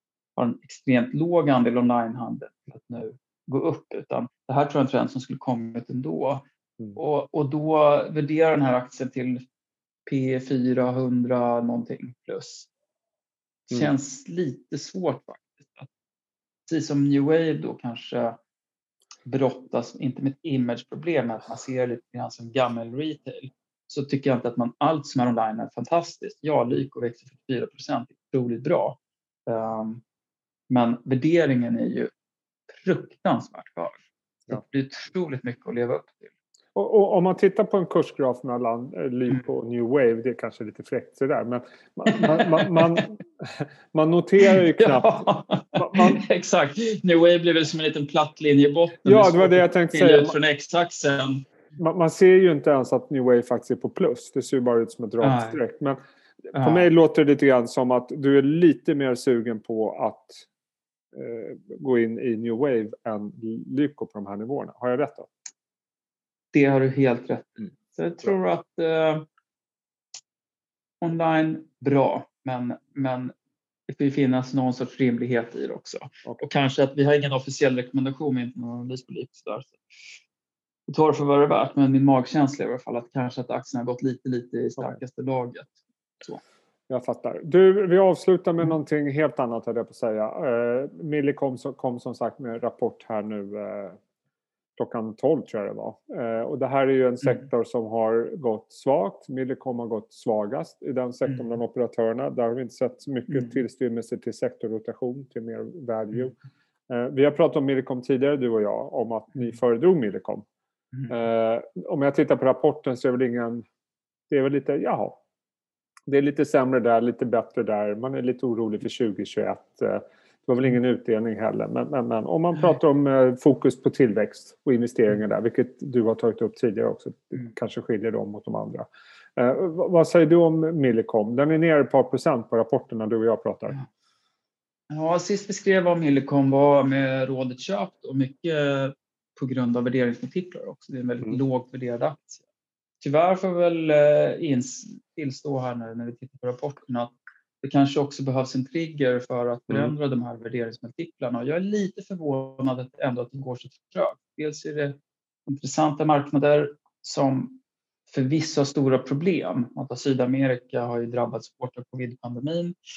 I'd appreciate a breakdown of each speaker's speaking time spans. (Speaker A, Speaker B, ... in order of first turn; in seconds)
Speaker A: 0.4-6.5, 7.0-9.4, 10.1-12.7, 13.7-15.9, 16.7-18.4, 19.3-30.0, 30.7-32.1, 32.7-34.0, 34.5-36.3, 42.1-43.0, 44.4-51.5, 55.2-55.6, 56.5-56.9, 66.5-69.2, 71.0-73.3, 73.9-79.8, 80.9-86.4, 134.9-142.4, 143.0-162.8
Speaker B: 36.8-46.2, 49.0-50.4, 51.8-56.0, 56.5-60.5, 61.1-65.3, 86.9-94.0, 94.8-106.4, 106.9-110.5, 111.1-113.7, 114.3-115.2, 116.1-133.8